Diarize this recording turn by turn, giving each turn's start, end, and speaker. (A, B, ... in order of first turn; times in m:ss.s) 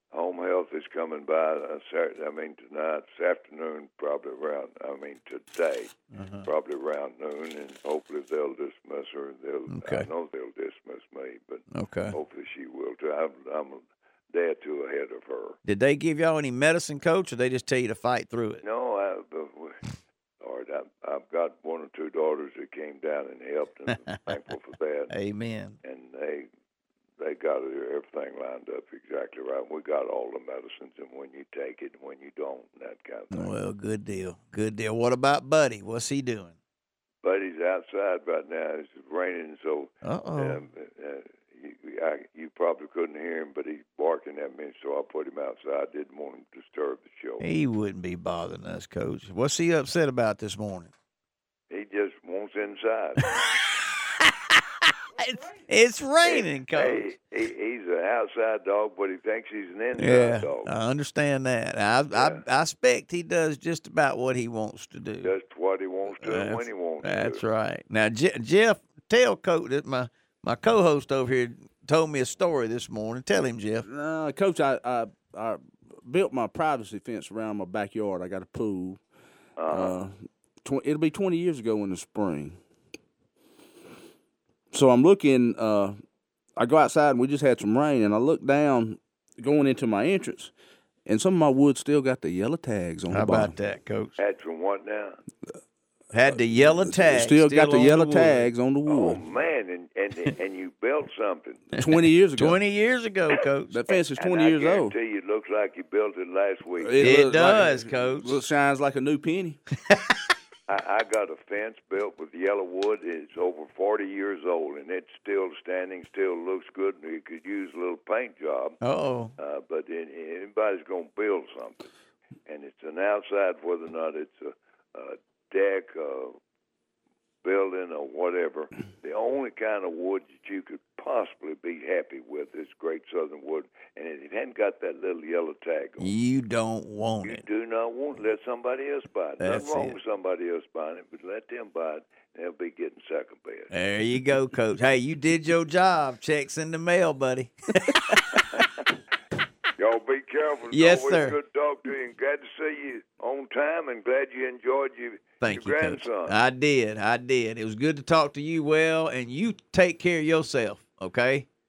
0:00.1-0:15.6 A
0:06.1-0:06.5 B
0:09.7-0:10.1 B
0:11.7-0:12.2 B
0:15.6-0:18.6 B
0:18.6-0:19.8 A
0:20.4-0:25.1 A
0:25.1-0:25.8 B
0:25.8-0:26.5 A
0:27.2-0:33.5 A
0:33.3-0:36.5 B
0:37.2-0:47.4 A
0:40.0-0:40.6 B
0:47.4-0:50.9 B
0:51.7-0:53.4 A
0:53.2-0:57.1 B
0:56.2-1:00.7 A
1:00.0-1:05.3 B
1:02.1-1:02.4 A
1:05.2-1:07.4 A
1:06.2-1:13.9 B
1:13.8-1:19.0 C
1:19.6-1:20.0 A
1:19.7-1:22.6 C
1:24.7-1:26.0 C
1:26.6-1:30.5 C
1:31.0-1:33.5 C
1:33.1-1:34.2 B
1:34.2-1:35.2 A
1:36.1-1:38.5 B
1:36.5-1:39.2 C
1:38.9-1:41.8 A
1:41.8-1:42.6 C
1:42.4-1:43.8 B
1:43.7-1:44.9 C
1:44.1-1:47.2 A
1:46.8-1:49.6 C
1:47.0-1:48.4 B
1:49.9-1:50.2 B
1:50.7-1:58.8 A
1:58.8-1:59.3 B
1:59.4-2:01.9 A
2:02.4-2:06.4 A
2:07.4-2:16.1 A
2:16.0-2:17.4 B
2:17.2-2:23.7 A
2:19.4-2:20.0 B
2:23.7-2:28.7 B
2:28.3-2:28.7 A
2:29.8-2:36.4 A
2:30.7-2:31.4 B
2:35.4-2:41.5 B